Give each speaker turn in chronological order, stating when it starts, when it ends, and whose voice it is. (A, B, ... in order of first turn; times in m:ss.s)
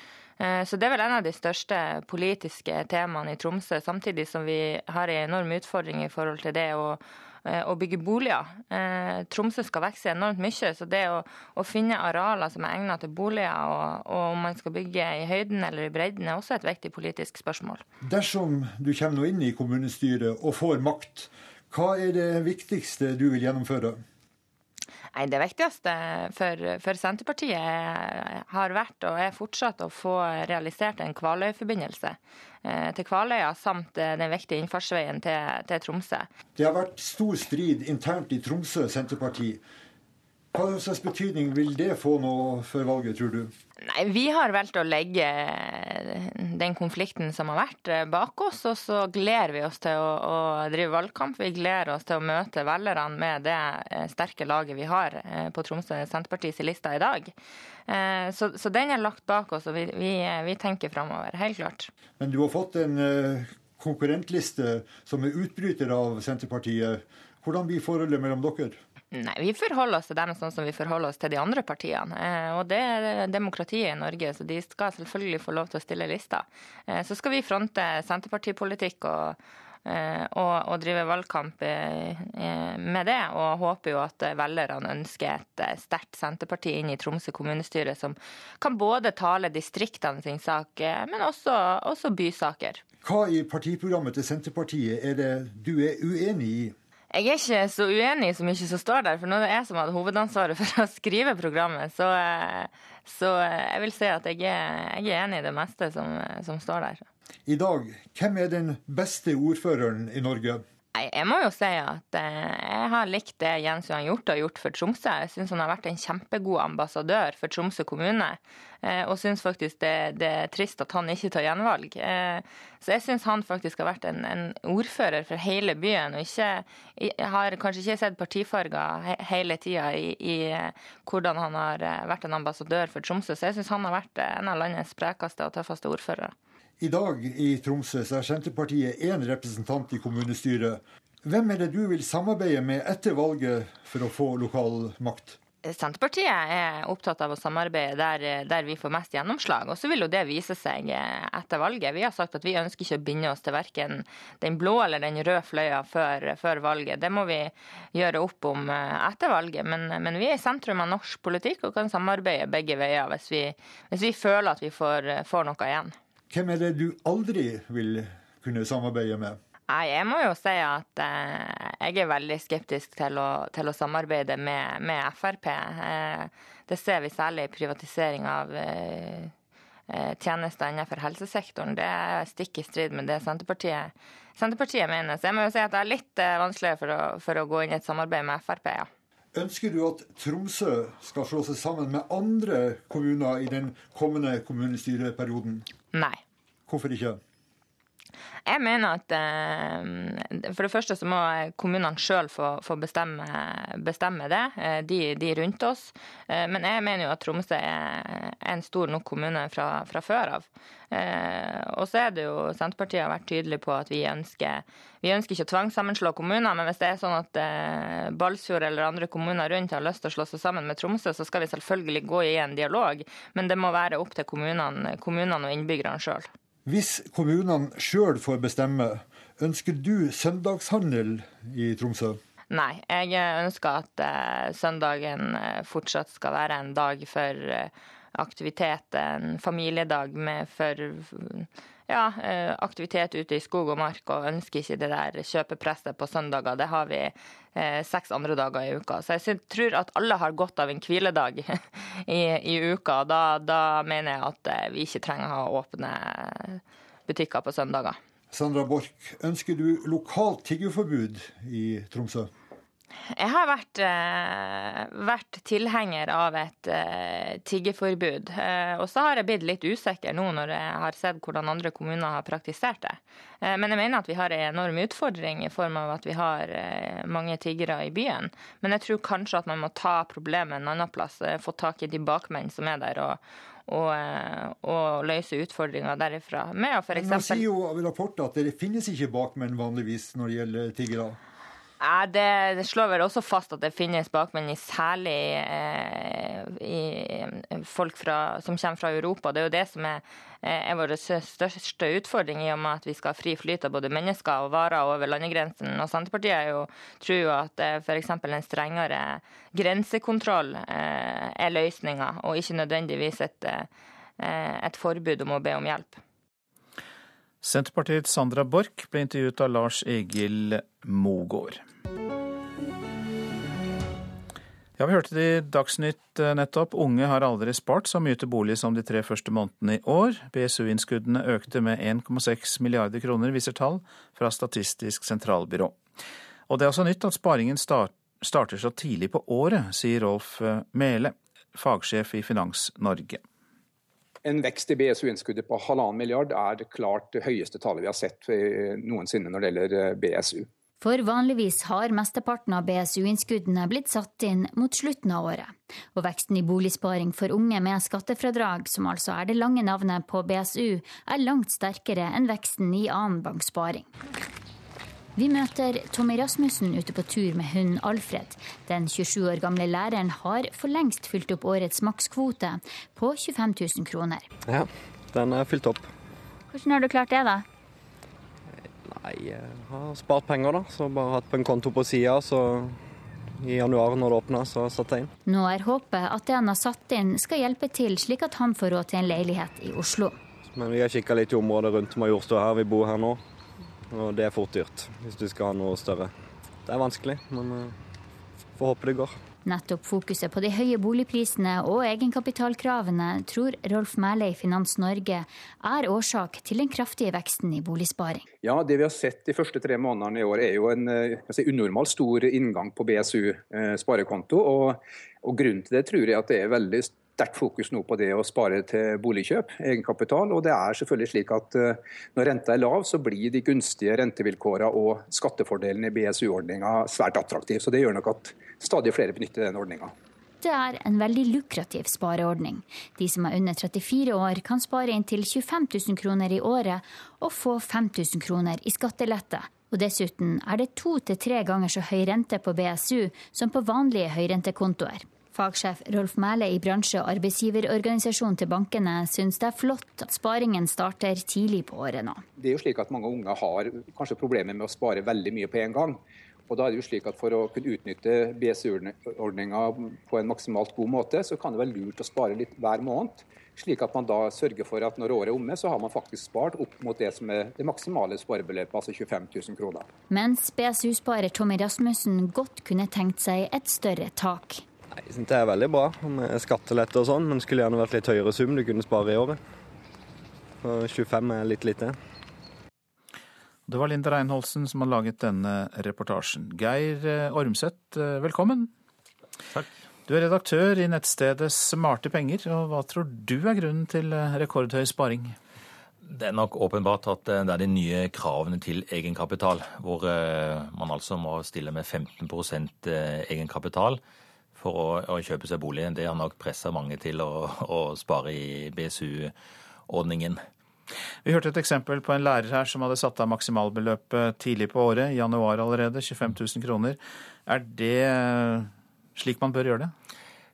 0:00.4-0:17.8 A
0:18.0-0:24.0 B
0:25.1-0:36.3 A
0:36.6-0:39.6 B
0:40.5-0:43.5 B
0:43.8-0:57.3 A
0:57.9-1:01.9 A
1:02.2-1:08.8 B
1:09.1-1:32.8 A
1:33.0-1:36.7 B
1:37.1-1:47.0 A
1:47.4-1:50.6 B
1:50.9-2:16.3 A
2:16.8-2:25.4 B
2:25.6-2:45.9 A
2:46.3-2:49.4 B
2:49.7-2:59.3 A
2:59.9-3:08.9 A
3:09.3-3:15.7 B
3:15.9-3:16.2 A
3:16.7-3:17.2 B
3:18.5-3:46.3 A
3:46.6-3:52.2 B
3:52.5-4:18.0 A
4:18.3-4:22.3 B
4:23.1-4:47.4 A
4:46.9-4:51.2 B
4:51.8-5:13.7 A
5:14.2-5:16.0 A
5:17.4-5:21.6 C
5:24.8-5:35.8 C
5:36.5-5:43.2 C
5:44.2-5:50.5 D
5:50.8-6:03.9 E
6:05.2-6:14.3 E
6:14.4-6:15.9 F
6:16.5-6:17.4 E
6:18.6-6:22.8 F
6:23.4-6:25.1 F
6:25.2-6:30.2 E
6:30.5-6:33.2 F
6:33.9-6:36.1 F
6:36.6-6:37.7 F
6:38.6-6:39.2 F
6:39.4-6:48.2 E
6:48.4-7:09.9 D
7:10.4-7:32.2 E
7:32.4-7:49.9 D
7:50.1-7:54.6 E
7:55.0-7:59.4 F
8:00.6-8:02.0 F
8:03.7-8:08.7 C
8:10.1-8:15.3 C
8:16.2-8:24.0 G
8:24.6-8:29.3 G
8:29.9-8:30.4 G
8:31.2-8:39.9 C